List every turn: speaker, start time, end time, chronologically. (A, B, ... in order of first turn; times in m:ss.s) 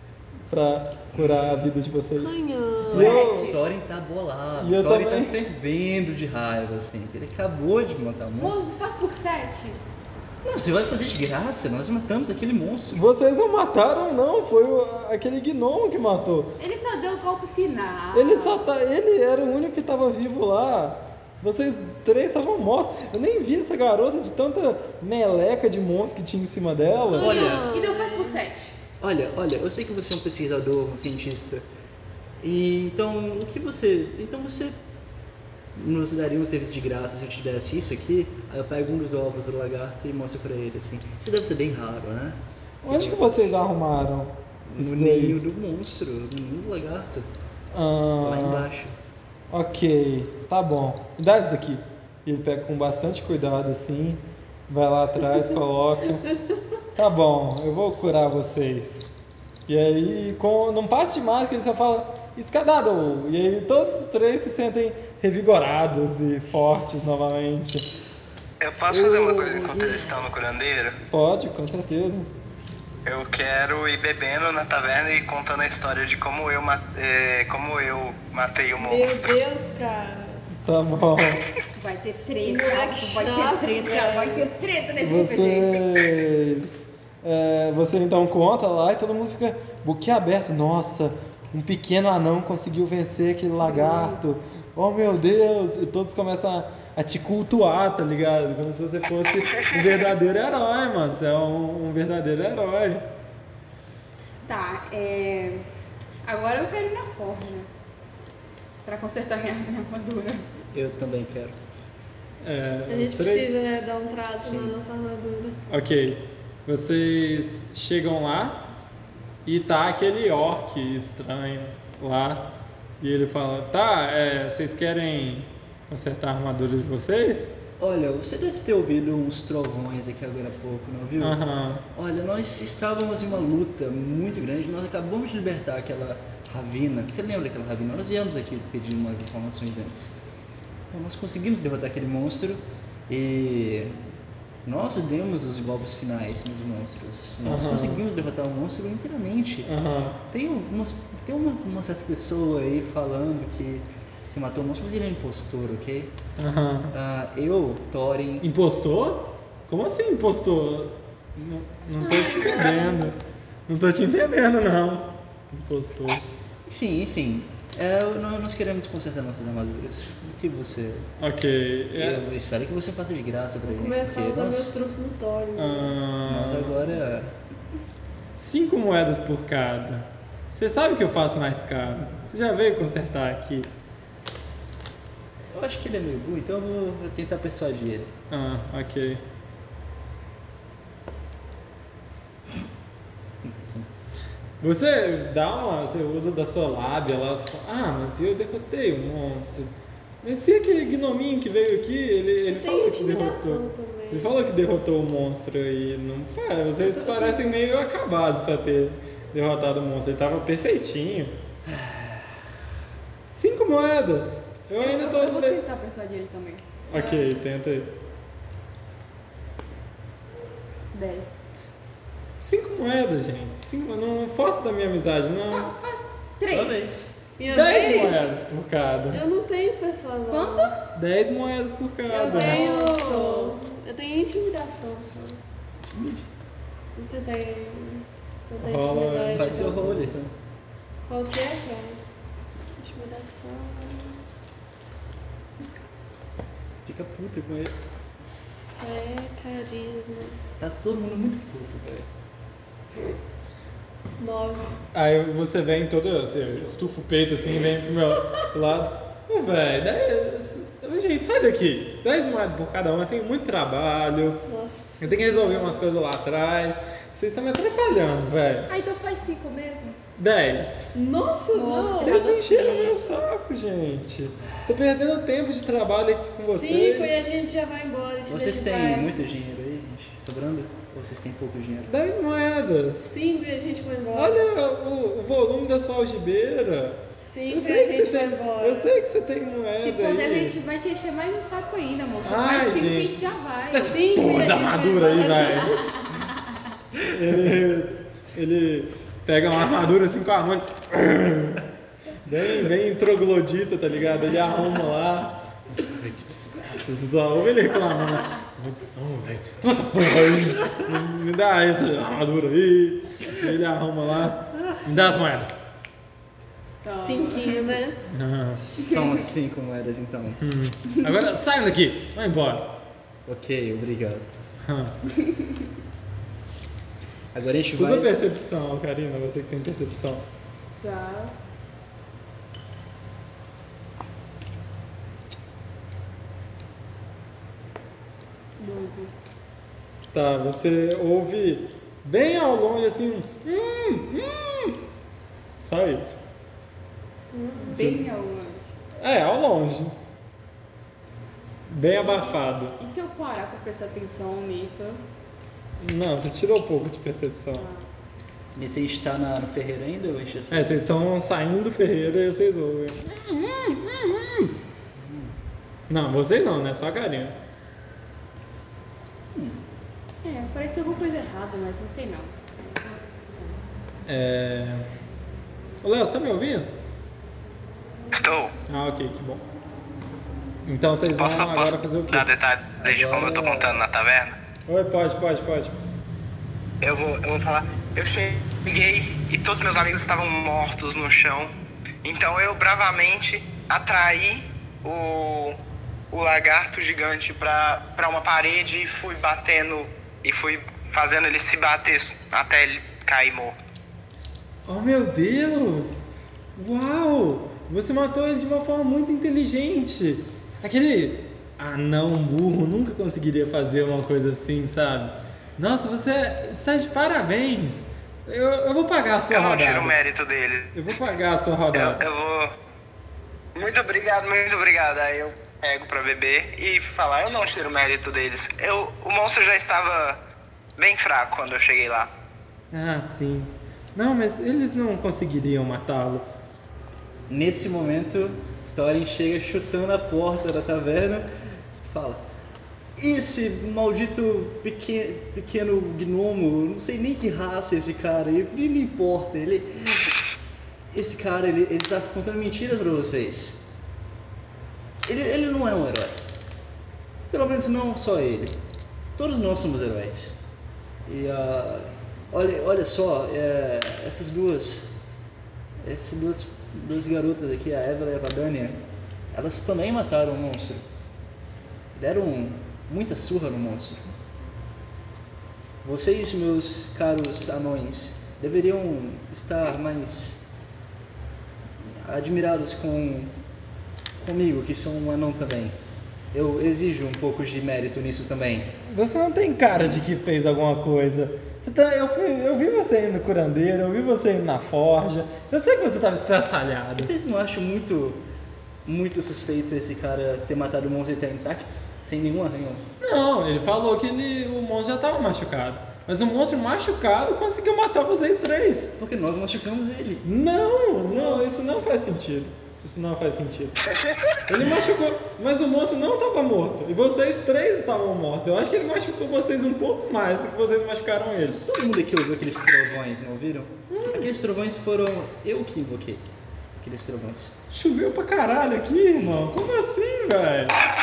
0:00.5-0:03.5 A
0:01.2-0:01.6 B
0:02.2-0:03.2 C
0:02.9-0:08.7 B
0:02.9-0:03.6 D
0:04.6-0:05.4 A
0:08.4-0:09.8 D
0:10.4-0:13.0 B
0:12.9-0:16.5 A
0:16.6-0:18.6 D
0:18.1-0:27.6 A
0:27.1-0:28.4 C
0:27.2-0:27.7 B
0:27.2-0:28.8 D
0:29.0-0:31.6 B
0:32.4-0:34.8 B
0:35.8-0:43.6 B
0:42.8-0:45.4 A
0:44.7-0:47.3 B
0:47.7-0:48.7 A
0:48.2-0:49.0 B
0:49.5-0:56.3 A
0:57.0-0:59.0 A
0:59.7-1:07.9 A
1:08.6-1:11.0 E
1:08.9-1:10.0 A
1:11.1-1:12.3 A
1:13.0-1:19.4 E
1:18.8-1:20.4 C
1:20.6-1:21.4 A
1:21.7-1:26.2 D
1:22.4-1:24.5 C
1:25.0-1:43.0 A
1:33.6-1:34.2 D
1:44.4-1:45.7 D
1:46.2-1:47.7 D
1:48.8-1:50.5 D
1:50.7-1:51.6 B
1:52.4-1:53.6 A
1:52.9-1:55.6 C
1:54.4-1:54.8 B
1:55.7-1:58.6 A
1:59.4-2:07.5 A
2:07.8-2:11.4 B
2:11.2-2:11.8 A
2:11.9-2:20.2 B
2:20.9-2:24.0 B
2:24.6-2:29.7 B
2:27.4-2:28.0 A
2:29.6-2:30.2 A
2:30.3-2:36.2 B
2:36.4-2:36.9 A
2:36.9-2:38.5 B
2:38.4-2:46.2 A
2:42.0-2:43.1 C
2:42.2-2:42.9 D
2:46.7-2:51.1 B
2:51.2-2:52.2 A
2:52.0-2:54.8 B
2:53.7-2:56.0 C
2:55.6-2:56.8 A
2:56.2-2:57.4 B
2:58.4-3:03.7 A
3:05.5-3:08.1 B
3:08.3-3:09.2 A
3:13.4-3:13.9 B
3:14.6-3:31.4 A
3:22.5-3:24.4 C
3:26.9-3:27.4 D
3:31.6-3:32.4 B
3:33.3-3:35.6 A
3:34.8-3:37.3 D
3:36.9-3:37.9 A
3:40.9-3:41.4 D
3:42.4-3:45.7 A
3:45.4-3:47.0 D
3:46.4-3:47.2 B
3:47.4-3:48.3 C
3:47.5-3:49.2 A
3:47.8-3:48.1 D
3:49.1-3:50.7 C
3:50.3-3:50.8 D
3:51.0-3:52.7 A
3:52.1-3:55.4 C
3:52.2-3:53.6 D
3:55.9-3:56.3 B
3:57.0-4:00.0 C
3:58.6-4:00.1 A
3:59.3-4:00.3 B
4:01.1-4:02.0 C
4:02.8-4:04.2 C
4:06.8-4:07.8 B
4:08.8-4:10.4 C
4:10.6-4:12.1 B
4:14.2-4:14.8 C
4:14.9-4:24.4 A
4:24.5-4:25.8 C
4:25.0-4:28.7 A
4:28.7-4:30.0 D
4:30.2-4:31.0 A
4:30.9-4:32.3 C
4:31.5-4:33.0 D
4:32.0-4:37.2 A
4:36.5-4:39.1 C
4:38.3-4:41.9 B
4:41.9-4:43.1 A
4:43.1-4:44.4 C
4:44.2-4:50.6 A
4:47.2-4:48.9 C
4:49.7-4:54.1 D
4:52.2-4:55.9 A
4:53.8-4:55.8 C
4:55.3-4:56.6 D
4:57.0-5:01.6 A
5:02.2-5:05.9 A
5:05.7-5:06.7 B
5:06.5-5:15.5 A
5:16.8-5:17.8 D
5:16.9-5:18.0 C
5:18.1-5:18.6 A
5:18.6-5:20.4 B
5:18.9-5:19.2 D
5:20.4-5:22.8 A
5:23.3-5:24.3 B
5:24.6-5:25.0 A
5:27.3-5:28.1 B
5:27.8-5:30.2 A
5:30.8-5:31.4 D
5:38.6-5:39.1 D
5:40.1-5:44.8 A
5:45.6-5:46.2 A
5:47.3-5:47.8 C
5:47.7-5:48.1 A
5:47.7-5:48.7 D
5:49.0-5:49.9 A
5:51.7-5:52.8 A
5:52.0-5:55.0 D
5:55.8-5:57.7 A
5:57.5-5:57.9 D
5:58.6-6:00.8 B
6:00.5-6:04.5 A
6:05.0-6:05.4 B
6:05.9-6:07.4 A
6:09.3-6:09.6 B
6:10.2-6:13.6 D
6:14.1-6:14.9 A
6:15.8-6:16.7 A
6:18.1-6:18.5 E
6:18.7-6:19.4 A
6:20.6-6:22.3 A
6:21.2-6:24.4 E
6:22.8-6:23.8 B
6:24.7-6:25.8 A
6:26.8-6:31.5 E
6:32.0-6:35.6 E
6:36.1-6:43.6 E
6:44.7-7:00.0 A
6:59.3-7:00.8 E
7:00.7-7:02.0 A
7:01.7-7:02.5 E
7:03.6-7:10.2 E
7:10.8-7:12.1 E
7:12.7-7:16.3 A
7:17.3-7:22.2 B
7:23.0-7:30.1 B
7:30.9-7:33.6 B
7:35.0-7:36.2 B
7:37.3-7:38.6 B
7:39.2-7:40.4 B
7:41.1-7:44.9 B
7:45.8-7:48.8 B
7:49.3-7:50.8 B
7:51.9-7:54.1 B
7:55.8-8:00.4 B
8:01.8-8:03.3 B
8:04.2-8:05.8 B
8:06.3-8:08.7 B
8:08.9-8:17.1 A
8:09.7-8:10.0 B
8:17.0-8:18.2 B
8:18.8-8:22.8 B
8:23.0-8:28.9 A
8:29.0-8:30.2 B
8:30.2-8:33.8 A
8:31.2-8:31.4 B
8:34.5-8:34.9 B
8:34.5-8:41.6 A
8:41.5-8:47.6 B
8:43.9-8:44.3 A
8:47.7-8:50.8 A